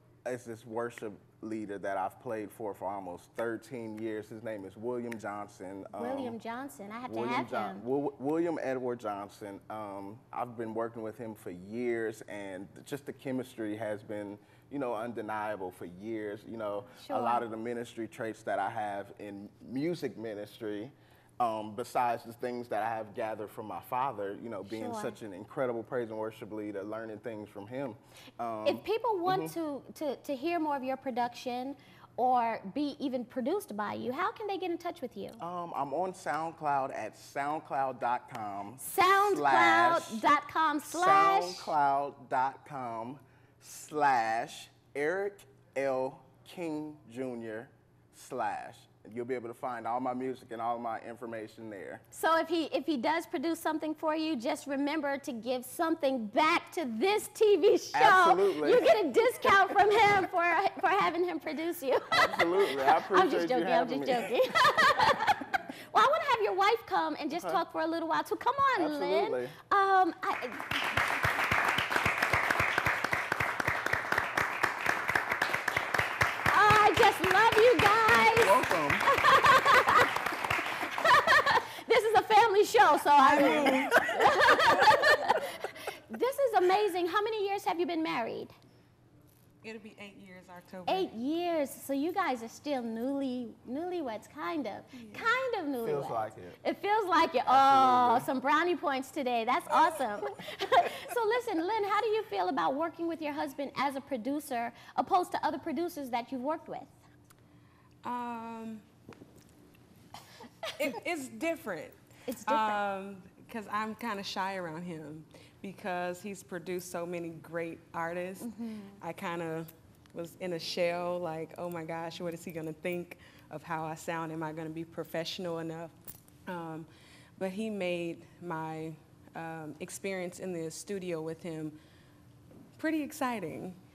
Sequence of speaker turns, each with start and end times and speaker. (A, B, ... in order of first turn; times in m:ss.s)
0:00.2-0:06.4 A
0:06.0-0:07.8 B
0:07.1-0:29.5 A
0:17.0-0:17.4 B
0:24.7-0:25.2 B
0:28.6-0:35.4 B
0:35.4-0:40.2 A
0:38.8-0:41.7 B
0:40.8-0:52.0 A
0:52.1-1:10.9 B
0:57.9-0:59.0 A
1:02.1-1:04.3 A
1:07.4-1:07.6 A
1:08.8-1:09.6 A
1:16.5-1:20.2 B
1:18.3-1:19.0 A
1:20.8-1:28.5 B
1:23.3-1:24.0 C
1:23.4-1:25.3 A
1:29.6-1:31.1 C
1:30.9-1:47.0 B
1:35.8-1:36.6 A
1:37.5-1:38.3 A
1:48.0-1:48.8 C
1:50.8-1:52.0 C
1:52.3-1:52.8 B
1:52.5-1:58.5 C
1:58.4-1:59.0 B
1:59.0-2:05.9 C
2:06.5-2:06.9 C
2:07.4-2:11.7 C
2:12.8-2:13.8 C